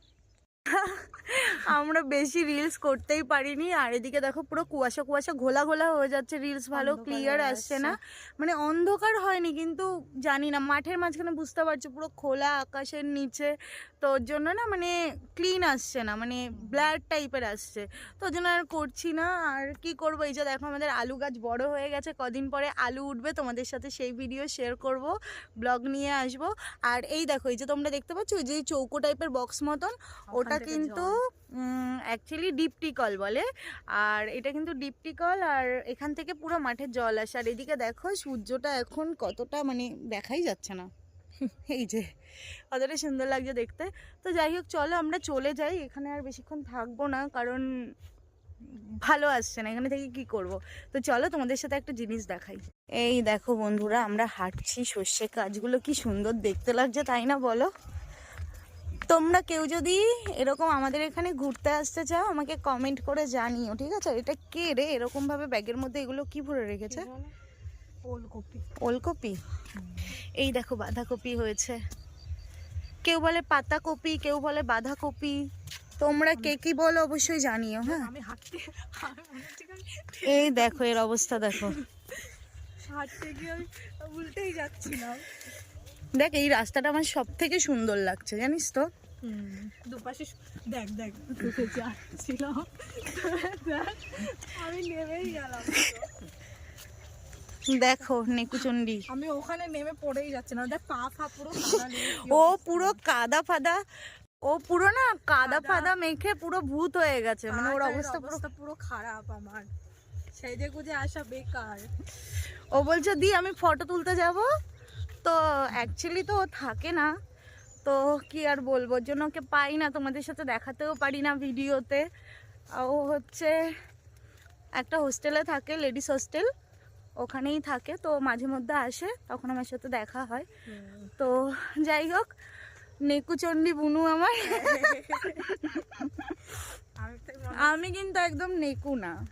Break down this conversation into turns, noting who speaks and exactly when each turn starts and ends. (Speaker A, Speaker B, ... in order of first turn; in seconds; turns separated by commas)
Speaker A: 0.7-40.9, Speaker B: 6.7-8.0, Speaker B: 30.3-31.1, Speaker A: 41.5-42.1, Speaker A: 42.7-47.6, Speaker A: 49.0-57.7, Speaker A: 59.1-67.1, Speaker B: 66.9-67.3, Speaker B: 68.0-68.7, Speaker A: 68.8-69.4, Speaker B: 69.8-70.1, Speaker A: 70.1-71.8, Speaker A: 73.0-75.4, Speaker A: 76.0-78.1, Speaker B: 77.8-80.9, Speaker A: 80.2-81.8, Speaker B: 81.5-85.3, Speaker A: 86.2-88.9, Speaker B: 89.2-96.1, Speaker A: 97.7-99.0, Speaker B: 99.1-103.0, Speaker A: 101.6-103.8, Speaker A: 104.4-108.4, Speaker B: 105.4-105.9, Speaker B: 107.5-109.7, Speaker B: 110.3-111.9, Speaker A: 112.7-114.5, Speaker A: 115.2-117.1, Speaker A: 117.8-122.0, Speaker A: 122.8-123.5, Speaker A: 124.8-126.5, Speaker A: 127.2-130.5, Speaker B: 130.7-131.1, Speaker A: 131.2-132.3, Speaker A: 133.0-136.6, Speaker B: 134.6-135.4, Speaker B: 137.0-137.8, Speaker A: 137.5-139.1